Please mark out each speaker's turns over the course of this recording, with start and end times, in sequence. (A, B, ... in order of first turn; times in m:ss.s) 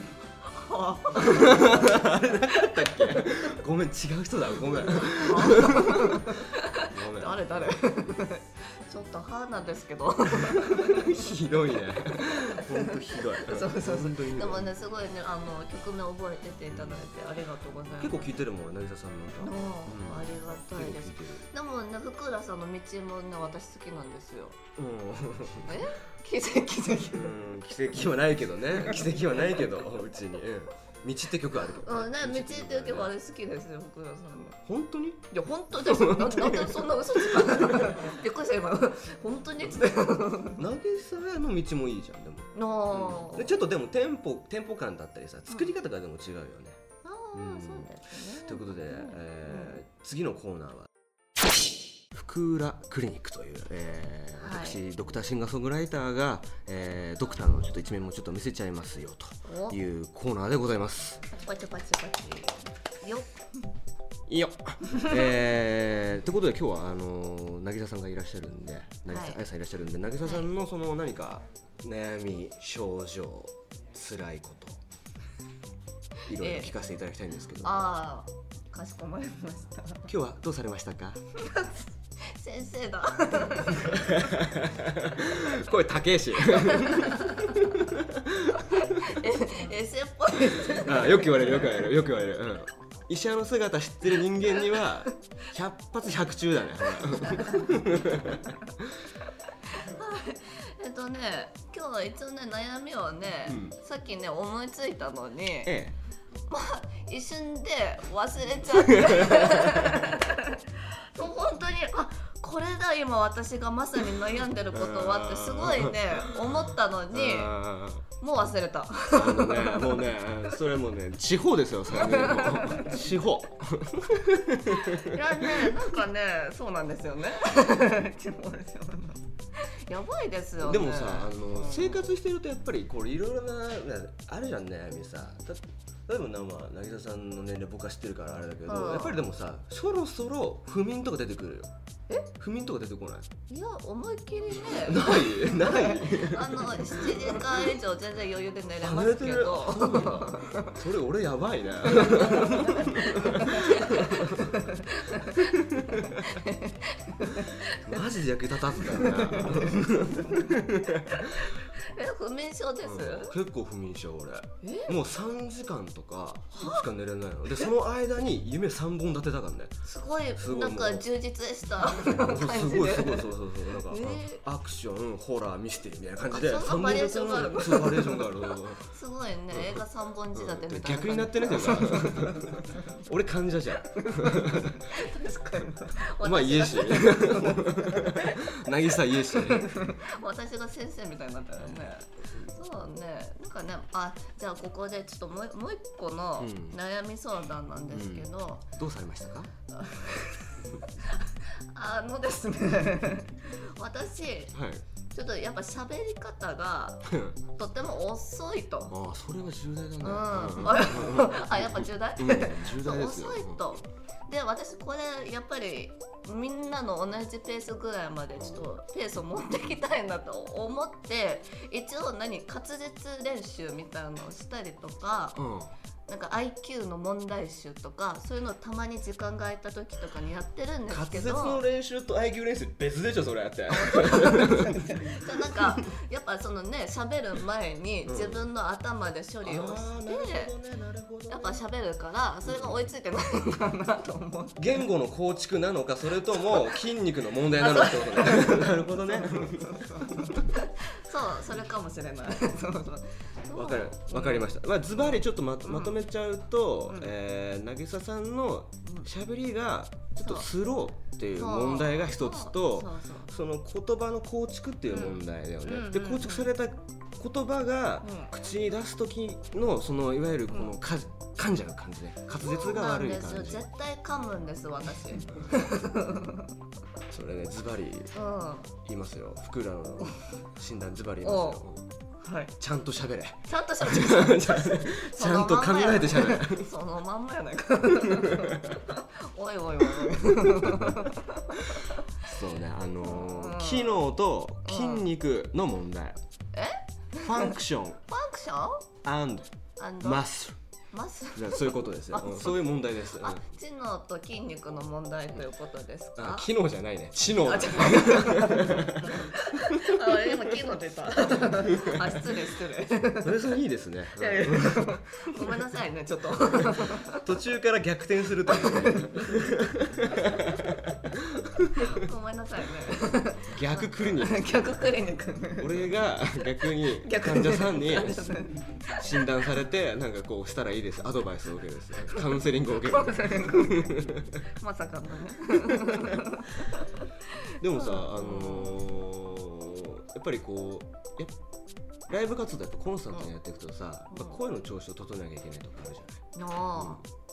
0:00.4-0:03.5 A
0:01.1-0:07.7 B
0:04.9-0:11.2 A
0:10.7-0:14.7 B
0:12.2-0:18.3 A
0:16.7-0:17.0 B
0:18.0-0:21.4 B
0:19.4-0:24.6 A
0:24.8-0:25.8 B
0:25.6-0:27.3 A
0:27.1-0:33.1 B
0:31.8-0:34.6 A
0:34.6-0:38.0 B
0:35.3-0:40.6 A
0:40.6-0:46.8 B
0:42.5-0:43.6 A
0:47.0-0:49.8 A
0:47.3-0:50.9 B
0:52.1-1:01.2 B
0:54.4-0:54.8 A
0:59.4-0:59.8 A
1:01.3-1:03.4 A
1:04.3-1:14.8 B
1:09.1-1:09.4 A
1:16.2-1:17.9 B
1:16.3-1:16.7 A
1:17.6-1:20.1 A
1:20.1-1:21.2 B
1:21.4-1:24.0 A
1:23.7-1:28.8 B
1:26.5-1:27.7 A
1:28.5-1:31.7 A
1:30.6-1:38.5 B
1:37.2-1:37.7 A
1:39.7-1:45.8 A
1:43.4-1:43.8 B
1:45.6-1:45.9 B
1:46.5-1:57.5 A
1:48.7-1:50.0 B
1:54.7-1:58.0 B
1:58.2-2:00.1 A
1:59.1-2:05.8 B
2:01.9-2:03.0 A
2:04.8-2:12.0 A
2:10.6-2:21.7 B
2:18.7-2:19.2 A
2:22.4-2:23.3 B
2:23.5-2:30.8 A
2:24.7-2:27.5 B
2:28.8-2:36.4 B
2:31.9-2:38.0 A
2:37.3-2:41.5 B
2:38.8-2:43.4 A
2:42.8-2:49.8 B
2:44.6-2:44.9 A
2:46.5-2:46.8 A
2:49.8-2:54.4 A
2:50.3-2:51.1 B
2:51.9-2:58.8 B
2:56.3-3:02.9 A
2:59.5-3:04.9 B
3:03.9-3:18.7 A
3:06.1-3:09.9 B
3:16.4-3:16.8 B
3:17.9-3:19.5 B
3:19.7-3:24.6 A
3:24.5-3:24.8 B
3:25.1-3:28.9 A
3:27.1-3:27.4 B
3:28.9-3:33.6 B
3:30.0-3:45.4 A
3:38.4-3:38.7 B
3:45.4-3:45.7 B
3:46.1-3:51.6 A
3:50.9-3:55.8 B
3:53.7-4:00.5 A
3:58.0-3:58.5 B
3:59.4-4:01.6 B
4:01.3-4:04.8 A
4:02.4-4:02.8 B
4:04.6-4:10.4 B
4:07.6-4:16.0 A
4:13.5-4:33.7 B
4:20.2-4:20.5 A
4:21.4-4:23.3 A
4:24.9-4:26.5 A
4:28.0-4:28.3 A
4:32.4-4:36.5 A
4:37.1-4:38.1 B
4:38.1-4:38.7 A
4:38.8-4:41.8 B
4:41.2-4:41.6 A
4:42.2-4:42.5 A
4:42.6-4:46.7 B
4:43.4-4:52.0 A
4:48.1-4:48.8 B
4:50.0-4:51.1 B
4:52.2-4:56.2 B
4:53.0-4:54.0 A
4:54.6-4:55.0 A
4:56.5-4:57.5 A
4:57.2-4:58.0 B
4:58.1-4:58.9 A
4:59.0-4:59.5 B
4:59.8-5:00.2 A
5:00.0-5:00.6 B
5:00.9-5:06.5 A
5:01.3-5:03.4 B
5:06.2-5:10.1 B
5:07.4-5:13.5 A
5:11.7-5:12.3 B
5:13.2-5:15.5 B
5:14.2-5:17.3 A
5:16.5-5:22.0 B
5:18.5-5:19.4 A
5:21.8-5:25.9 A
5:23.4-5:24.7 B
5:25.6-5:34.4 B
5:26.8-5:29.2 A
5:32.8-5:37.0 A
5:35.7-5:36.2 B
5:37.5-5:38.8 A
5:37.6-5:41.3 B
5:42.1-5:46.2 B
5:44.1-5:44.4 A
5:46.3-5:47.0 A
5:46.7-5:47.0 B